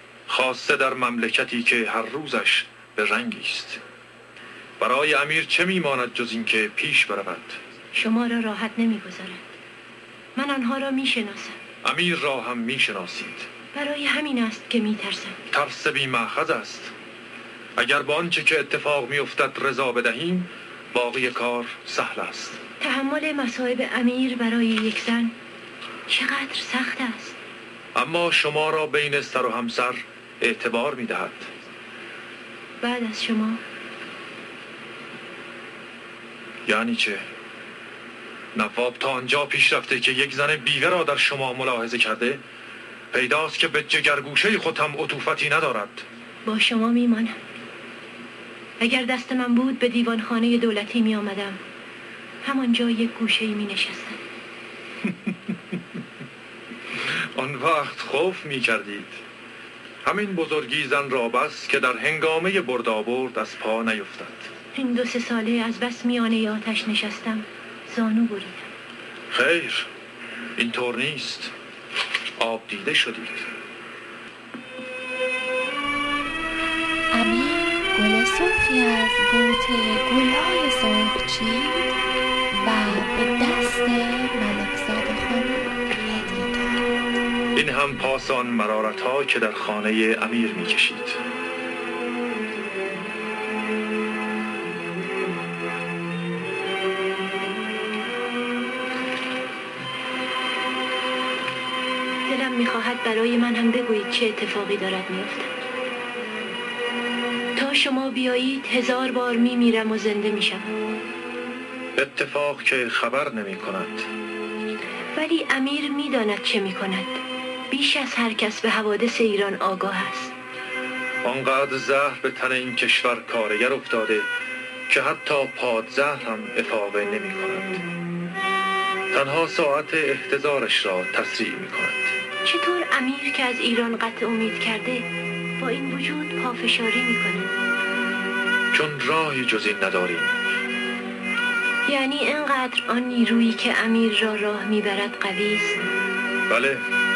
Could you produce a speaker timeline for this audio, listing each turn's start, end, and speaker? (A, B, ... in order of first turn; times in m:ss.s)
0:00.3-0:03.8 A
0:04.8-0:07.6 A
0:07.9-0:09.4 B
0:10.4-0:11.6 B
0:11.8-0:13.5 A
0:13.7-0:15.4 B
0:15.5-0:16.9 A
0:17.8-0:22.6 A
0:22.8-0:25.3 B
0:26.1-0:27.4 B
0:27.9-0:31.5 A
0:32.8-0:33.6 B
0:36.6-0:37.2 A
0:38.5-0:42.4 A
0:43.1-0:46.0 A
0:46.4-0:47.4 B
0:48.8-0:51.6 B
0:52.4-0:54.2 B
0:57.3-0:59.2 A
1:00.0-1:04.5 A
1:04.7-1:08.7 B
1:09.3-1:09.9 A
1:10.6-1:11.5 A
1:12.4-1:13.5 A
1:17.1-1:21.9 C
1:22.5-1:26.9 C
1:27.5-1:31.2 A
1:42.3-1:45.5 B
1:47.6-1:50.7 B
1:52.0-1:54.1 A
1:55.1-2:00.3 B
2:01.2-2:04.3 A
2:04.9-2:07.8 A
2:09.1-2:12.1 A
2:12.4-2:15.1 B
2:15.6-2:17.5 B
2:18.7-2:20.3 A
2:21.8-2:25.8 B
2:26.5-2:26.8 A